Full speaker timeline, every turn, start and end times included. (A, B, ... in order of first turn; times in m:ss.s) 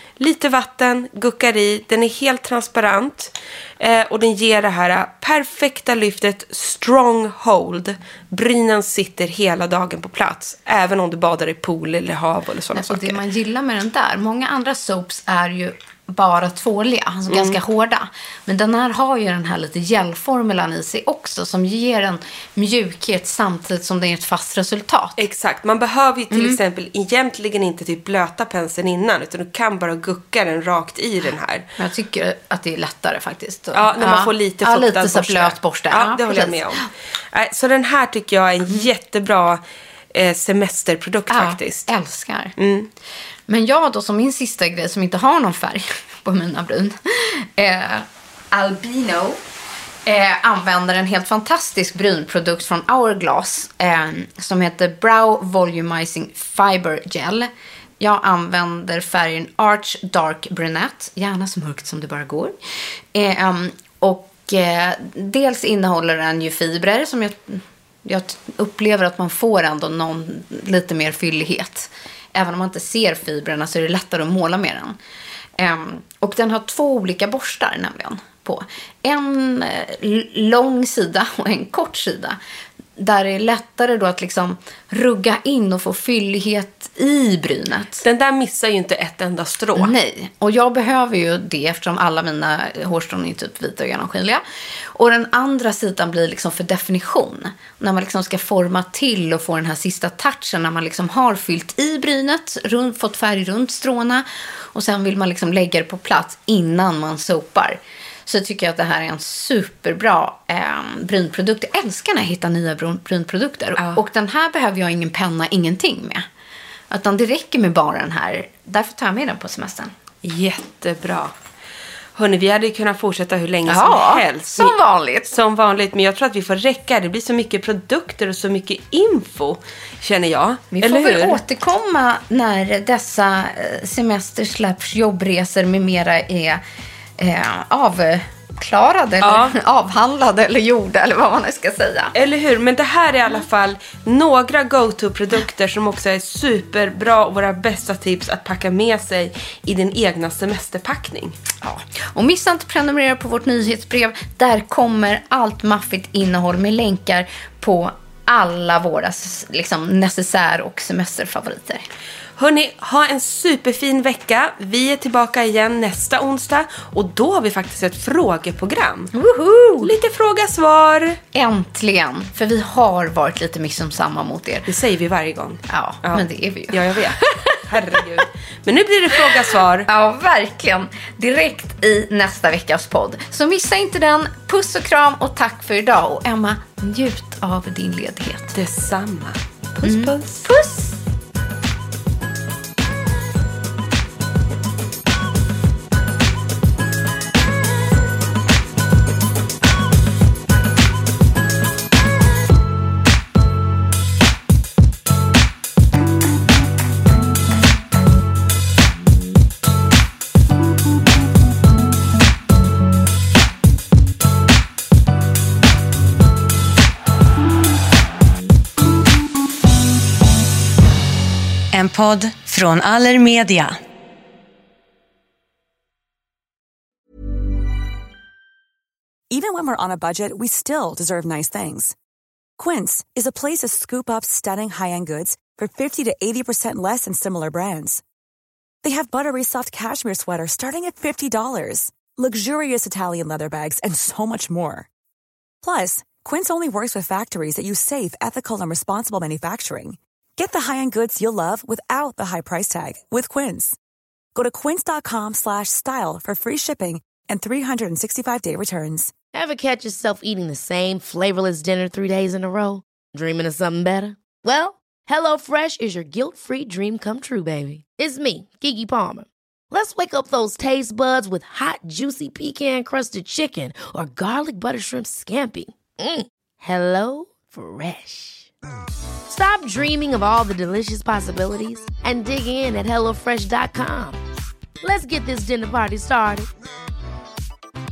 0:00.2-0:13.2 A
0:12.7-0:25.2 B
0:17.3-0:17.6 A
0:25.2-0:31.7 A
0:26.3-0:26.6 B
0:31.8-0:36.8 B
0:33.7-0:39.6 A
0:40.1-0:41.9 A
0:41.3-0:42.6 B
0:42.6-0:42.9 A
0:43.5-0:49.4 B
0:50.1-1:02.6 B
1:03.1-1:15.0 B
1:15.6-1:22.4 B
1:23.0-1:28.0 B
1:28.0-1:29.9 A
1:29.8-1:34.4 B
1:34.9-1:56.2 B
1:56.9-1:59.9 B
2:00.2-2:01.3 A
2:02.2-2:11.4 A
2:03.7-2:05.3 B
2:10.7-2:16.6 B
2:17.2-2:22.1 B
2:19.2-2:19.6 A
2:22.1-2:31.4 A
2:31.6-2:41.8 B
2:42.4-2:49.1 A
2:49.1-2:49.9 B
2:49.8-2:51.2 A
2:51.3-2:54.7 B
2:54.7-2:59.9 A
2:55.7-2:57.6 B
2:59.9-3:08.6 B
3:08.6-3:10.5 A
3:09.8-3:11.0 B
3:41.8-3:43.8 B
3:49.3-3:52.0 C
3:52.6-3:58.0 C
3:58.8-4:04.9 C
4:05.6-4:13.8 C
4:14.4-4:19.1 C
4:19.3-4:38.5 D
4:39.3-4:44.2 D
4:44.8-4:46.5 D